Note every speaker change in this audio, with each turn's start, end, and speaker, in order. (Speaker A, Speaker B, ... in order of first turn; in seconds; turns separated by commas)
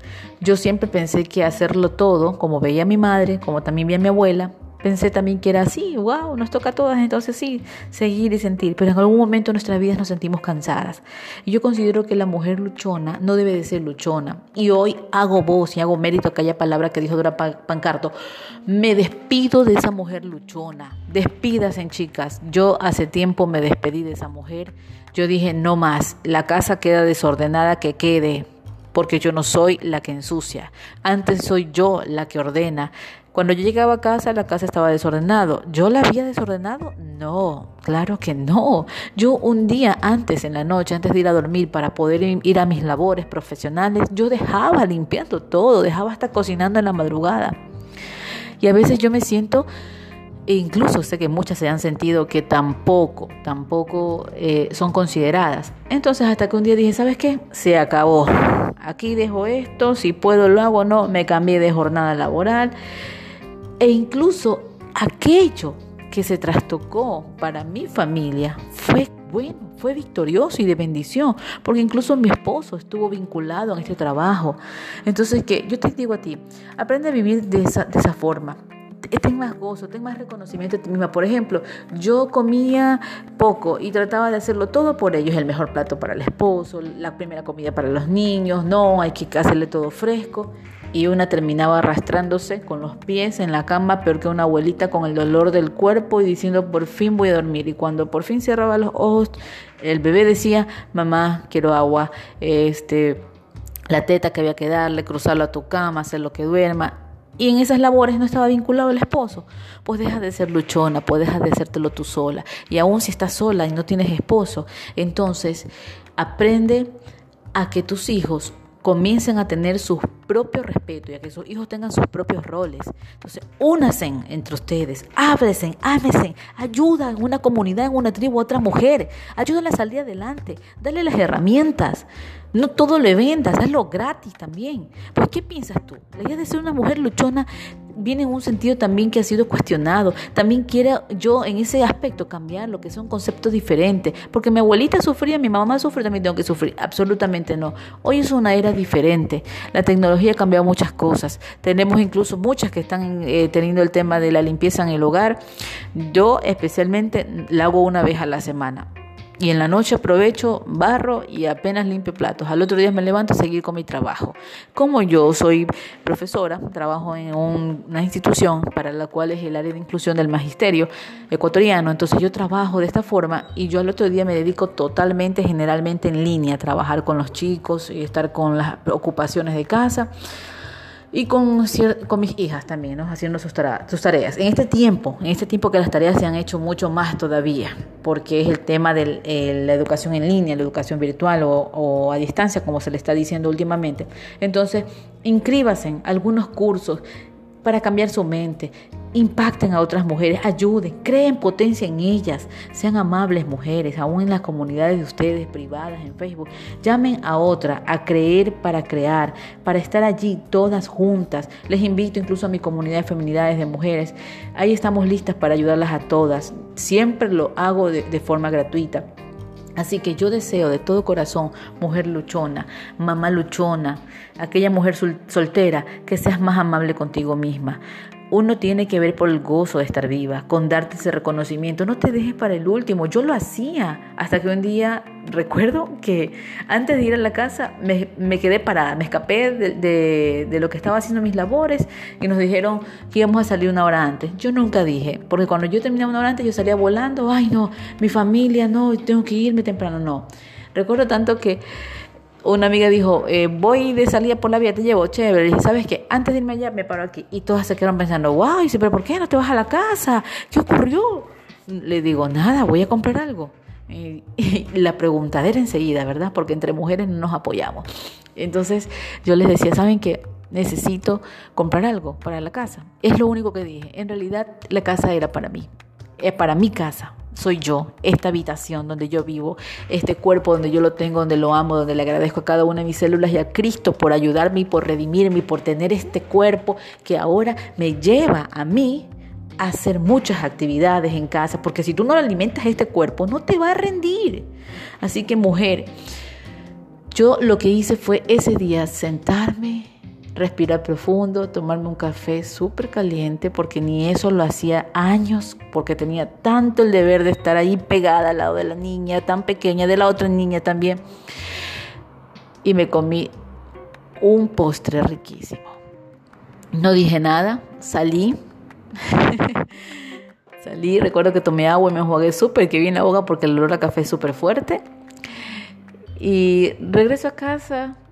Speaker A: 0.4-18.1, Speaker A: 18.6-47.5, Speaker A: 48.6-49.7, Speaker A: 50.5-62.7, Speaker A: 63.8-78.6, Speaker A: 79.1-103.2, Speaker A: 103.9-116.9, Speaker A: 117.5-155.4, Speaker A: 155.9-158.9, Speaker A: 159.4-180.1, Speaker A: 181.1-197.0, Speaker A: 197.6-219.0, Speaker A: 219.8-251.6, Speaker A: 252.4-267.8, Speaker A: 268.4-294.5, Speaker A: 295.0-295.9, Speaker A: 297.1-311.0, Speaker A: 312.6-313.3, Speaker A: 314.2-315.8, Speaker A: 316.7-318.4, Speaker A: 319.0-319.7, Speaker A: 320.6-324.8, Speaker A: 326.2-328.0